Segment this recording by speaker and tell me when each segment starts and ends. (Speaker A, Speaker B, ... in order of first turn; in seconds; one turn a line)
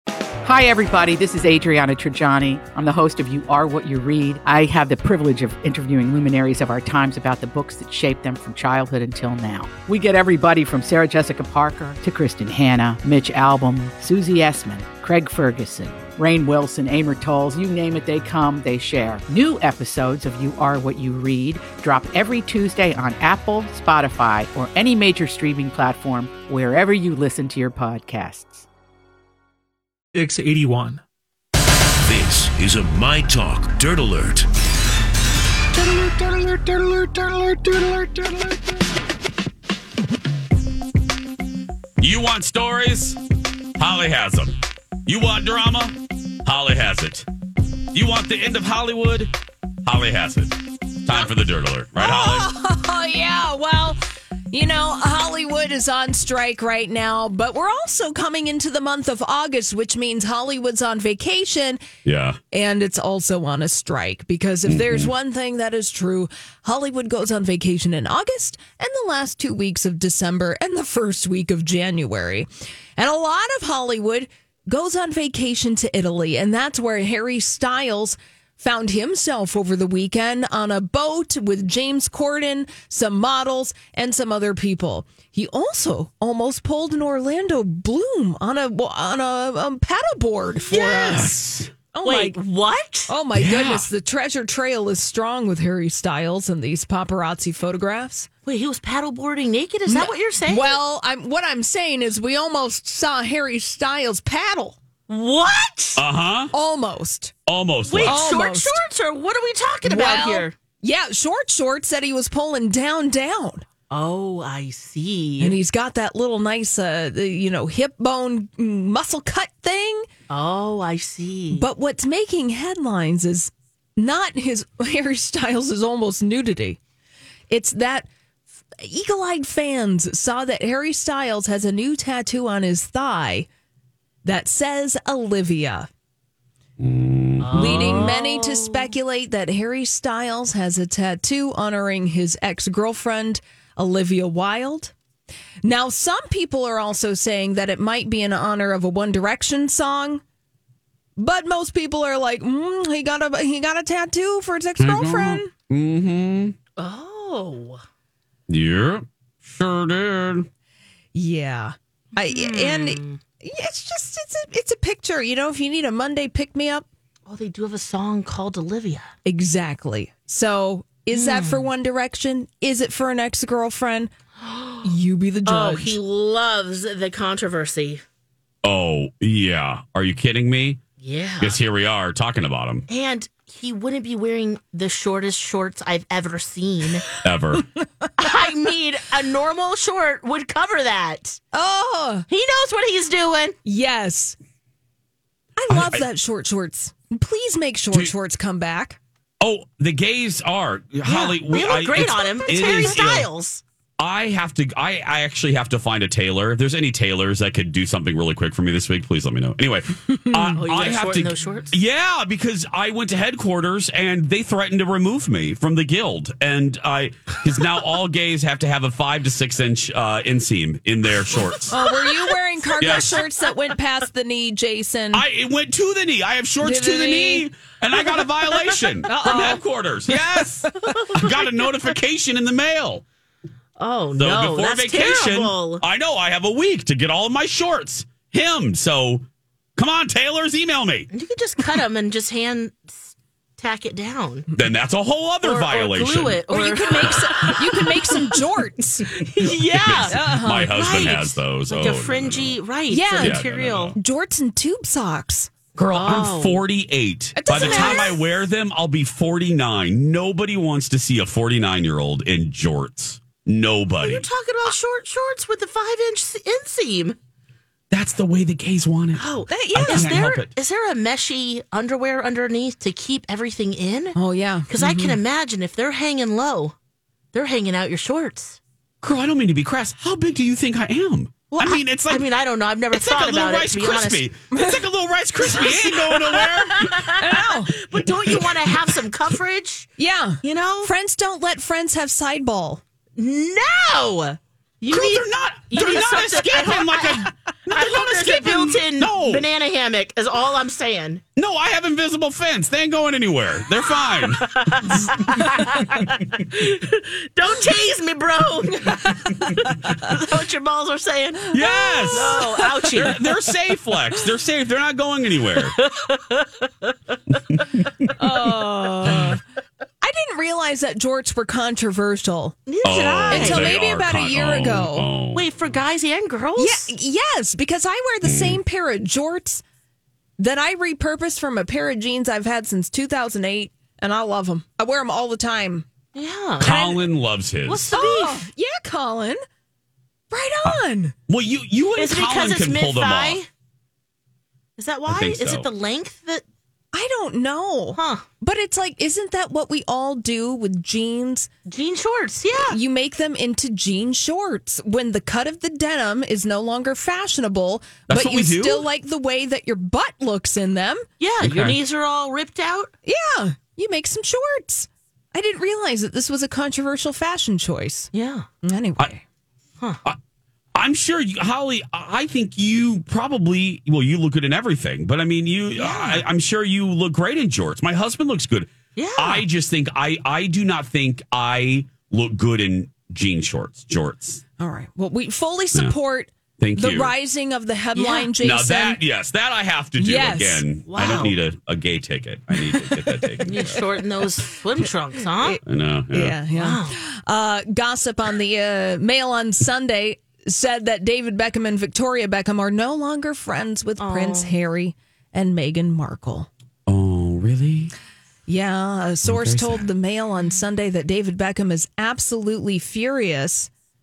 Speaker A: 0.4-28.7
Speaker B: 30.1-31.0
Speaker C: 32.0-34.5
Speaker B: 36.0-38.1
Speaker D: 42.0-43.2
Speaker D: 43.8-47.3
Speaker D: 47.9-49.3
Speaker D: 49.8-50.5
Speaker D: 51.0-52.5
Speaker E: 52.0-54.0
Speaker E: 54.5-61.8
Speaker D: 62.0-62.4
Speaker E: 62.5-92.4
Speaker D: 64.7-65.1
Speaker D: 90.7-91.7
Speaker F: 92.0-93.1
Speaker E: 93.1-98.3
Speaker D: 93.3-93.9
Speaker F: 98.5-100.8
Speaker E: 99.9-104.8
Speaker F: 105.1-106.0
Speaker D: 106.0-106.5
Speaker E: 106.5-107.3
Speaker D: 107.5-108.2
Speaker F: 107.8-110.5
Speaker E: 108.0-108.8
Speaker E: 109.8-113.7
Speaker F: 113.9-115.6
Speaker E: 115.4-120.1
Speaker F: 120.3-121.7
Speaker E: 121.5-126.8
Speaker E: 127.5-128.1
Speaker E: 128.8-133.5
Speaker E: 134.2-135.9
Speaker D: 136.8-138.2
Speaker F: 137.4-138.9
Speaker E: 137.5-144.9
Speaker E: 145.6-150.2
Speaker E: 151.2-155.5
Speaker D: 154.8-156.6
Speaker F: 156.8-157.8
Speaker D: 158.5-160.5
Speaker E: 161.1-166.9
Speaker F: 162.3-163.2
Speaker F: 167.3-169.1
Speaker E: 169.2-174.1
Speaker F: 171.1-171.7
Speaker F: 174.4-174.8
Speaker E: 174.8-176.0
Speaker F: 175.5-178.0
Speaker D: 178.6-180.8
Speaker F: 181.0-181.6
Speaker D: 181.4-182.9
Speaker F: 182.9-187.1
Speaker D: 187.2-187.7
Speaker F: 188.2-191.4
Speaker E: 191.5-192.3
Speaker F: 192.3-193.6
Speaker E: 193.7-194.4
Speaker E: 195.6-199.0
Speaker D: 195.7-196.1
Speaker D: 199.4-203.3
Speaker F: 201.0-203.6
Speaker D: 204.0-221.8
Speaker F: 210.5-211.7
Speaker E: 221.7-225.3
Speaker D: 222.8-223.2
Speaker D: 225.1-233.0
Speaker E: 226.6-227.5
Speaker E: 229.1-229.6
Speaker F: 230.9-231.4
Speaker F: 233.8-235.8
Speaker D: 234.2-241.1
Speaker F: 241.1-244.5
Speaker D: 244.5-247.5
Speaker F: 245.4-248.2
Speaker E: 246.5-249.1
Speaker F: 249.2-254.0
Speaker D: 249.7-252.6
Speaker E: 250.1-250.7
Speaker E: 252.9-253.4
Speaker D: 253.2-254.0
Speaker E: 253.9-255.5
Speaker D: 255.8-264.3
Speaker F: 255.9-256.6
Speaker E: 257.4-258.2
Speaker F: 257.5-258.2
Speaker F: 264.0-267.2
Speaker D: 267.9-270.5
Speaker F: 269.2-274.2
Speaker E: 269.5-270.4
Speaker E: 274.1-275.2
Speaker F: 274.7-276.8
Speaker F: 277.3-278.6
Speaker D: 279.0-282.3
Speaker F: 281.5-284.3
Speaker D: 282.9-287.1
Speaker E: 284.5-284.8
Speaker F: 285.4-289.9
Speaker E: 287.0-287.7
Speaker E: 290.0-292.8
Speaker F: 290.4-290.9
Speaker F: 293.2-301.2
Speaker D: 294.9-299.5
Speaker D: 301.4-305.1
Speaker F: 304.0-311.5
Speaker D: 311.5-315.7
Speaker E: 311.5-312.8
Speaker F: 312.1-313.2
Speaker F: 315.6-316.4
Speaker E: 318.2-319.4
Speaker E: 320.0-325.1
Speaker F: 322.7-323.8
Speaker D: 322.8-325.5
Speaker F: 325.3-326.9
Speaker E: 326.6-329.6
Speaker D: 328.2-328.6
Speaker E: 330.4-335.9
Speaker F: 336.1-336.8
Speaker E: 336.6-337.1
Speaker D: 336.6-337.9
Speaker F: 337.7-338.5
Speaker E: 337.9-339.4
Speaker E: 340.3-341.1
Speaker D: 340.6-343.4
Speaker F: 342.0-343.5
Speaker F: 344.8-346.4
Speaker D: 345.1-345.7
Speaker E: 346.9-351.5
Speaker F: 347.9-348.2
Speaker F: 351.7-352.8
Speaker E: 352.7-361.0
Speaker D: 358.1-358.9
Speaker F: 361.2-362.9
Speaker D: 361.4-361.8
Speaker E: 363.1-368.1
Speaker F: 368.1-368.5
Speaker E: 368.6-369.2
Speaker D: 370.8-384.4
Speaker E: 375.8-376.2
Speaker F: 379.0-379.4
Speaker E: 384.6-389.0
Speaker D: 386.6-387.1
Speaker F: 387.9-388.4
Speaker D: 388.4-393.8
Speaker E: 390.0-390.6
Speaker F: 390.9-391.4
Speaker F: 393.4-395.6
Speaker E: 395.3-406.5
Speaker D: 395.6-396.4
Speaker F: 396.5-397.0
Speaker F: 404.0-404.6
Speaker D: 406.9-407.9
Speaker E: 408.5-413.7
Speaker D: 409.2-409.9